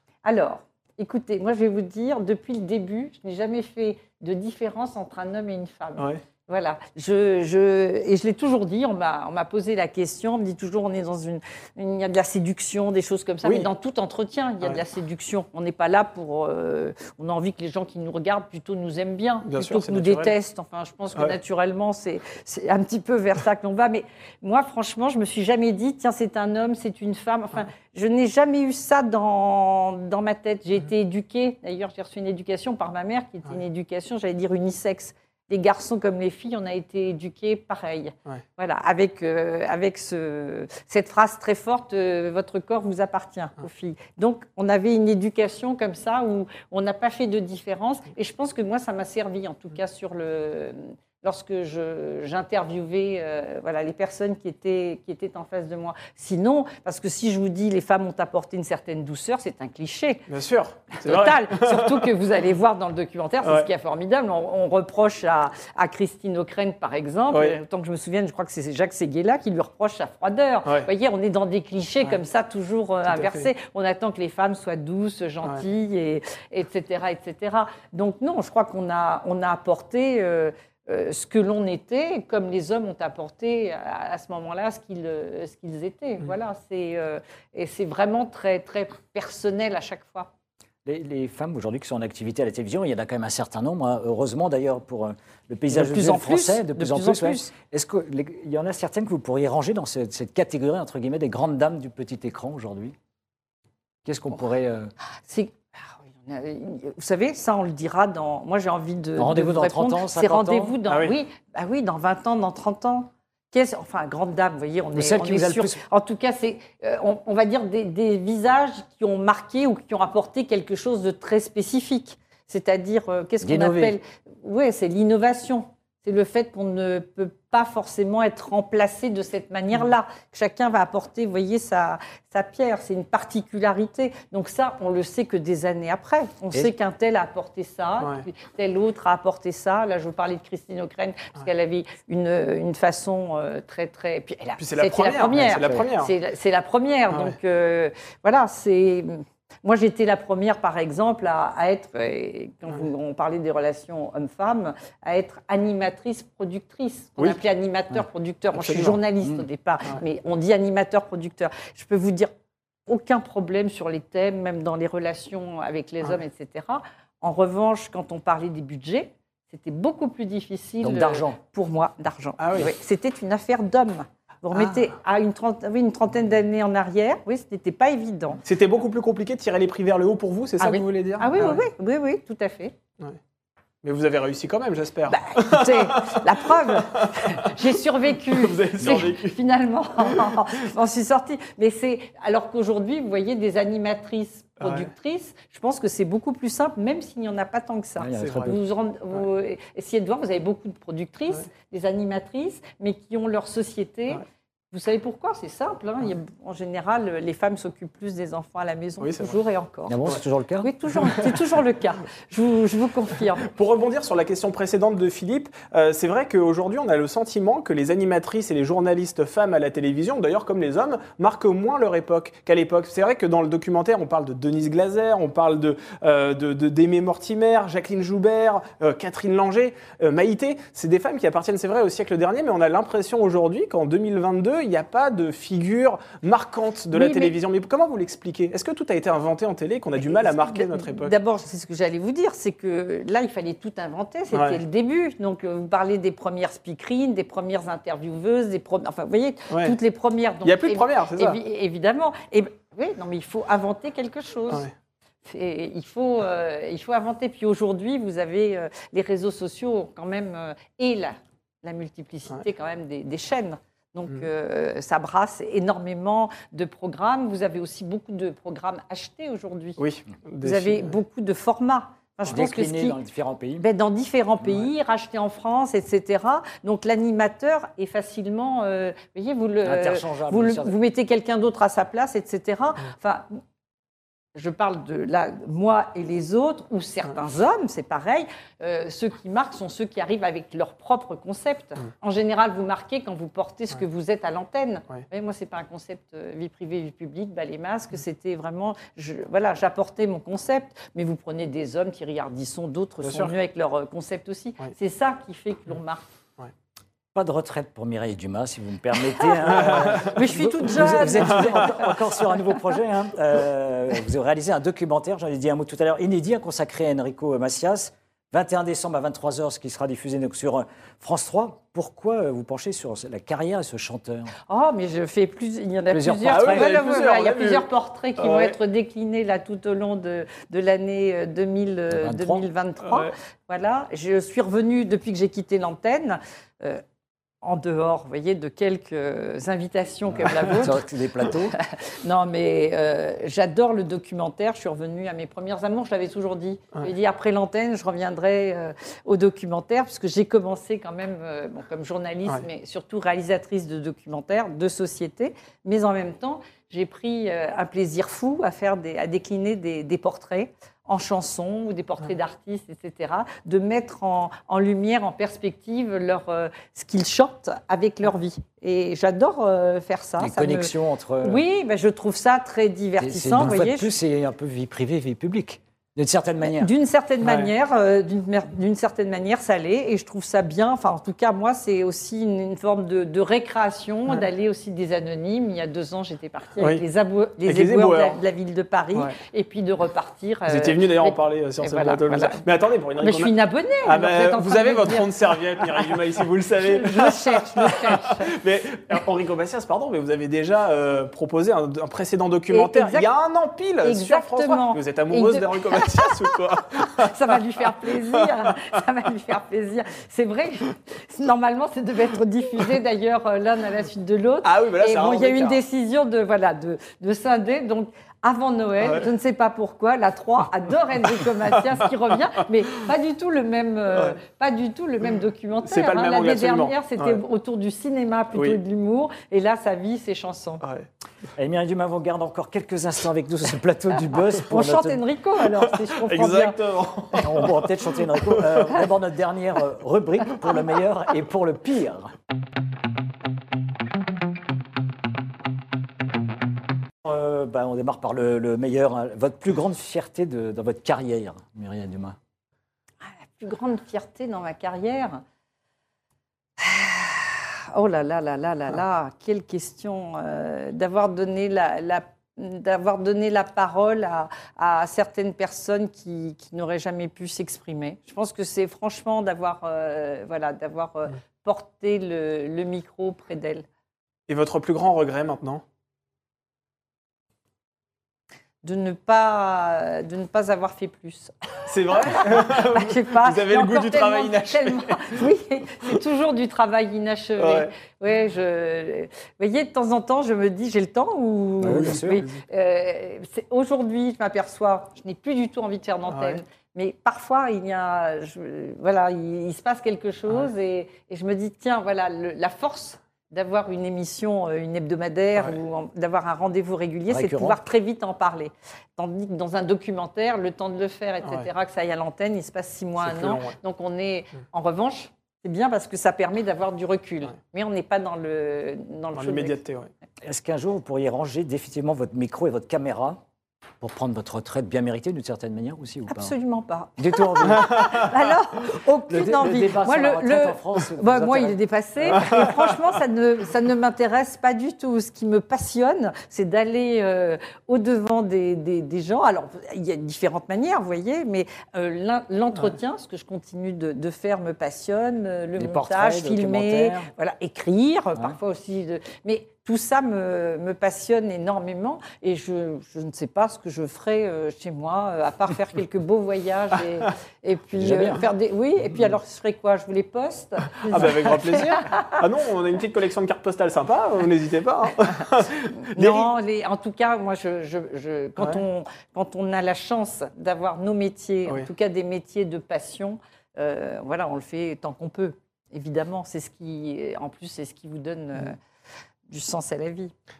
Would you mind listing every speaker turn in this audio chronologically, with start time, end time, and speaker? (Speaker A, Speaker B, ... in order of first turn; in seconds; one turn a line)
Speaker A: 0.2-60.2
Speaker B: 19.5-20.3
Speaker B: 60.3-62.1
Speaker A: 61.0-90.3
Speaker B: 67.3-67.6
Speaker B: 73.1-73.5
Speaker C: 90.8-103.0
Speaker A: 95.7-97.5
Speaker C: 104.0-104.9
Speaker A: 105.3-162.3
Speaker C: 109.2-110.8
Speaker B: 110.9-111.2
Speaker C: 115.0-115.8
Speaker C: 123.4-124.0
Speaker B: 144.6-146.1
Speaker C: 145.5-145.8
Speaker B: 158.6-159.0
Speaker A: 162.9-178.4
Speaker C: 170.8-171.4
Speaker B: 172.4-172.7
Speaker B: 178.4-181.7
Speaker A: 180.6-182.7
Speaker B: 183.8-187.6
Speaker A: 185.1-210.0
Speaker B: 188.2-189.4
Speaker B: 190.1-190.4
Speaker B: 194.6-194.9
Speaker C: 198.0-198.6
Speaker B: 198.2-198.5
Speaker B: 209.0-209.3
Speaker C: 209.9-210.7
Speaker A: 210.6-213.5
Speaker B: 211.0-211.3
Speaker B: 213.4-241.2
Speaker A: 236.9-237.3
Speaker A: 240.0-254.7
Speaker B: 244.3-244.6
Speaker B: 249.5-249.8
Speaker B: 250.4-251.4
Speaker A: 255.3-269.8
Speaker B: 269.8-270.9
Speaker A: 270.4-273.0
Speaker C: 272.3-273.7
Speaker A: 273.6-283.4
Speaker C: 279.6-280.8
Speaker A: 284.4-306.1
Speaker B: 303.0-303.3
Speaker C: 307.1-324.3
Speaker A: 309.5-312.0
Speaker B: 309.6-310.1
Speaker B: 311.2-311.7
Speaker A: 324.5-336.8
Speaker C: 325.9-326.7
Speaker B: 326.3-327.6
Speaker B: 328.2-328.6
Speaker C: 331.9-332.5
Speaker A: 337.4-373.9
Speaker C: 340.4-341.6
Speaker C: 370.2-371.4
Speaker C: 373.0-376.7
Speaker A: 376.4-392.4
Speaker B: 377.2-377.5
Speaker B: 386.6-386.8
Speaker B: 387.4-388.2
Speaker B: 390.5-407.4
Speaker A: 393.0-396.0
Speaker A: 396.6-398.3
Speaker A: 402.5-403.1
Speaker A: 403.8-430.6
Speaker B: 414.4-415.6
Speaker B: 425.6-427.2
Speaker C: 431.4-435.0
Speaker A: 434.5-436.6
Speaker B: 435.9-437.6
Speaker C: 437.2-442.1
Speaker B: 438.2-438.7
Speaker C: 447.0-452.2
Speaker A: 453.4-455.2
Speaker A: 456.6-473.7
Speaker B: 474.3-475.6
Speaker A: 478.6-481.3
Speaker B: 481.7-485.2
Speaker A: 481.9-519.6
Speaker B: 487.4-487.7
Speaker C: 491.6-492.2
Speaker B: 491.6-492.4
Speaker B: 496.1-496.4
Speaker C: 507.1-507.6
Speaker B: 513.0-513.6
Speaker B: 519.1-519.9
Speaker C: 520.2-523.2
Speaker C: 523.8-526.3
Speaker A: 526.1-562.2
Speaker C: 527.0-528.1
Speaker C: 529.1-531.6
Speaker C: 545.6-547.1
Speaker C: 557.8-558.3
Speaker B: 560.9-566.3
Speaker A: 565.9-578.6
Speaker A: 579.3-580.1